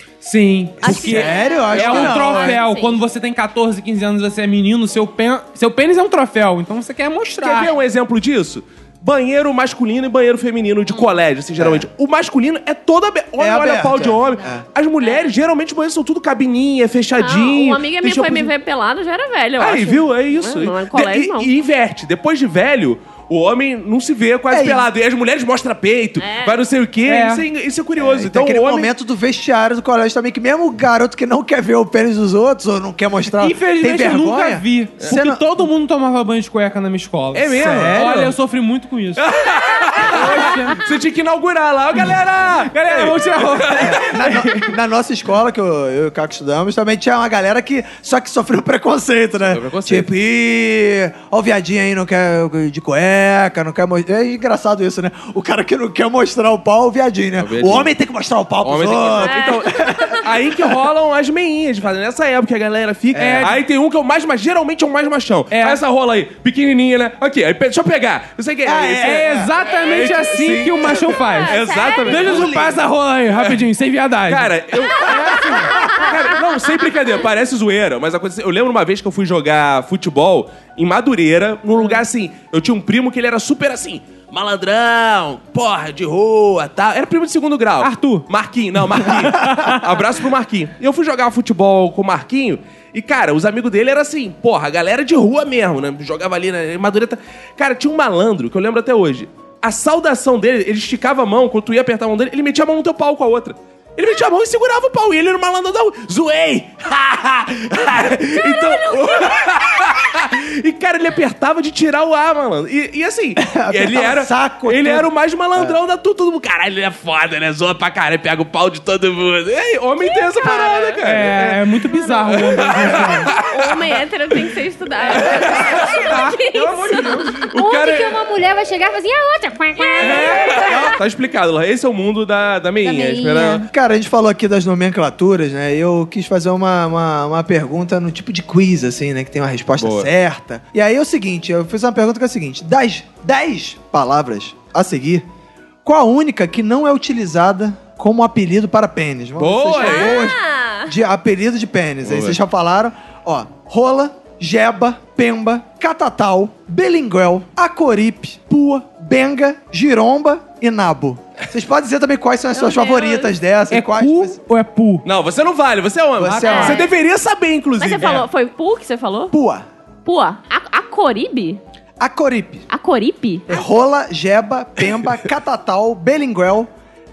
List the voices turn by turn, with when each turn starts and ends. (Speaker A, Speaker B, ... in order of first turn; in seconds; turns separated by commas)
Speaker A: 0.2-7.7, Speaker B: 0.8-3.0, Speaker C: 0.8-2.6, Speaker D: 1.8-2.1, Speaker D: 7.4-18.5, Speaker C: 11.6-11.9, Speaker C: 13.4-14.7, Speaker E: 14.0-14.3, Speaker B: 15.0-15.3, Speaker B: 17.2-21.5, Speaker D: 19.6-28.9, Speaker C: 24.5-24.9, Speaker B: 26.2-26.6, Speaker A: 27.1-27.5, Speaker C: 28.0-35.4, Speaker A: 33.4-39.3, Speaker D: 37.3-38.3, Speaker C: 37.6-38.3, Speaker D: 39.2-44.0, Speaker A: 40.1-40.9, Speaker A: 42.7-44.7, Speaker C: 43.8-60.6, Speaker D: 49.4-50.1, Speaker D: 57.4-57.9, Speaker D: 58.6-72.8, Speaker B: 59.2-60.2, Speaker C: 63.1-63.5, Speaker A: 63.2-63.5, Speaker A: 65.5-65.8, Speaker C: 68.6-69.5, Speaker A: 69.0-76.0, Speaker B: 69.6-70.2, Speaker B: 71.0-72.4, Speaker C: 72.2-72.7, Speaker D: 73.3-73.6, Speaker D: 74.3-123.9, Speaker A: 87.8-88.3, Speaker A: 89.3-89.9, Speaker B: 108.4-109.4, Speaker C: 113.4-115.8, Speaker B: 120.0-121.0, Speaker A: 121.0-123.3, Speaker B: 123.4-127.3, Speaker D: 125.2-125.9, Speaker A: 125.8-127.4, Speaker E: 127.4-131.0, Speaker D: 127.5-128.2, Speaker B: 129.8-130.6, Speaker D: 130.0-133.7, Speaker E: 132.8-133.7, Speaker C: 133.7-145.2, Speaker D: 139.8-140.1, Speaker C: 145.8-164.4, Speaker D: 149.4-150.2, Speaker B: 149.8-150.9, Speaker D: 152.0-152.4, Speaker B: 162.5-163.3, Speaker A: 163.7-165.1, Speaker D: 165.1-168.3, Speaker C: 166.2-166.9, Speaker A: 166.3-166.8, Speaker B: 166.5-166.9, Speaker B: 167.8-169.3, Speaker C: 169.3-169.7, Speaker B: 170.1-171.6, Speaker C: 172.0-172.7, Speaker B: 172.7-173.6, Speaker C: 173.5-176.7